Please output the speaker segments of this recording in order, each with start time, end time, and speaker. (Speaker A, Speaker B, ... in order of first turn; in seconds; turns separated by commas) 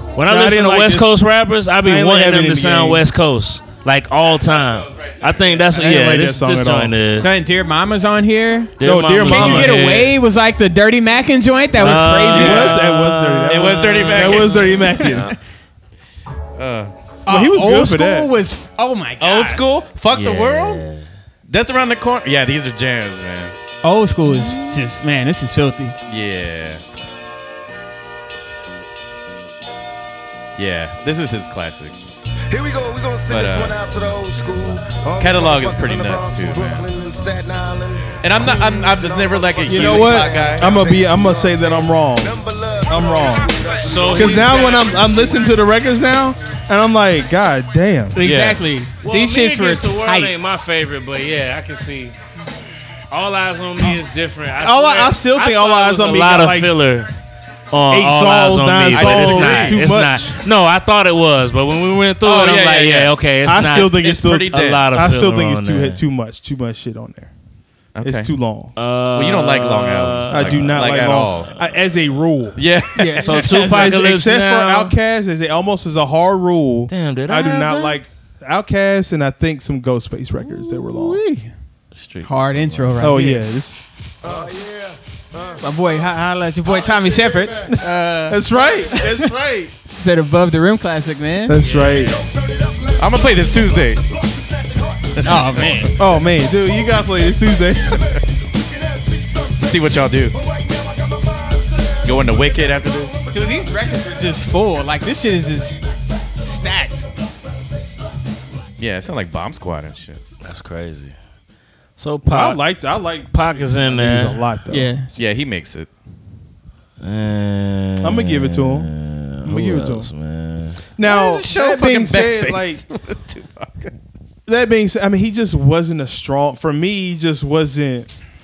Speaker A: 0.1-7.3, Speaker B: 0.3-1.2, Speaker B: 1.8-3.0, Speaker C: 4.2-5.8, Speaker B: 5.7-7.0, Speaker D: 7.2-12.7, Speaker A: 8.8-10.2, Speaker B: 8.8-9.9, Speaker A: 11.7-14.6, Speaker B: 12.3-15.3, Speaker C: 12.3-12.7, Speaker C: 13.4-15.1, Speaker D: 13.7-15.3, Speaker C: 16.6-16.9, Speaker B: 17.3-18.3, Speaker D: 17.3-19.8, Speaker C: 19.2-20.8, Speaker A: 20.1-21.1, Speaker C: 21.5-23.6, Speaker D: 23.8-25.9, Speaker B: 24.3-24.7, Speaker C: 26.1-26.8, Speaker C: 30.6-31.9, Speaker E: 32.5-45.0, Speaker C: 33.3-33.8, Speaker C: 35.2-36.9, Speaker C: 38.2-40.9, Speaker B: 39.7-48.2, Speaker A: 43.8-45.5, Speaker D: 48.1-50.3, Speaker C: 48.2-48.6, Speaker A: 49.0-52.2, Speaker A: 53.1-57.1, Speaker B: 54.6-56.8, Speaker A: 57.7-66.0, Speaker B: 57.9-60.4, Speaker C: 58.9-59.8, Speaker C: 62.2-63.1, Speaker B: 63.5-67.3, Speaker C: 63.7-65.1, Speaker C: 68.0-68.3, Speaker B: 68.0-68.7, Speaker A: 68.8-71.2, Speaker C: 69.1-71.5, Speaker B: 70.3-72.6, Speaker C: 72.6-73.5, Speaker D: 73.0-74.0, Speaker A: 73.2-74.9, Speaker B: 73.6-81.2, Speaker A: 76.9-78.0, Speaker D: 80.4-81.5, Speaker A: 82.0-83.1, Speaker D: 82.2-83.4, Speaker B: 83.0-83.8, Speaker E: 84.2-86.1, Speaker D: 85.6-89.3, Speaker E: 86.7-87.8, Speaker B: 88.3-89.7, Speaker E: 88.5-89.0, Speaker D: 89.9-91.6, Speaker B: 91.5-92.2, Speaker A: 91.6-92.1, Speaker E: 91.9-95.4, Speaker C: 93.0-94.0, Speaker C: 95.2-95.9, Speaker D: 95.2-96.0, Speaker B: 96.0-97.8, Speaker E: 96.2-104.0, Speaker C: 99.6-100.4, Speaker C: 102.0-103.2, Speaker D: 103.3-105.8, Speaker D: 106.4-107.1, Speaker C: 108.8-110.2, Speaker A: 110.4-111.2, Speaker A: 112.0-112.6, Speaker B: 112.3-114.9, Speaker A: 113.3-114.4, Speaker D: 114.7-115.1, Speaker C: 115.2-115.9, Speaker A: 117.0-120.8, Speaker B: 118.0-118.9, Speaker B: 119.4-120.1, Speaker B: 121.0-122.8, Speaker D: 121.1-121.5, Speaker C: 121.1-123.9, Speaker B: 124.5-128.1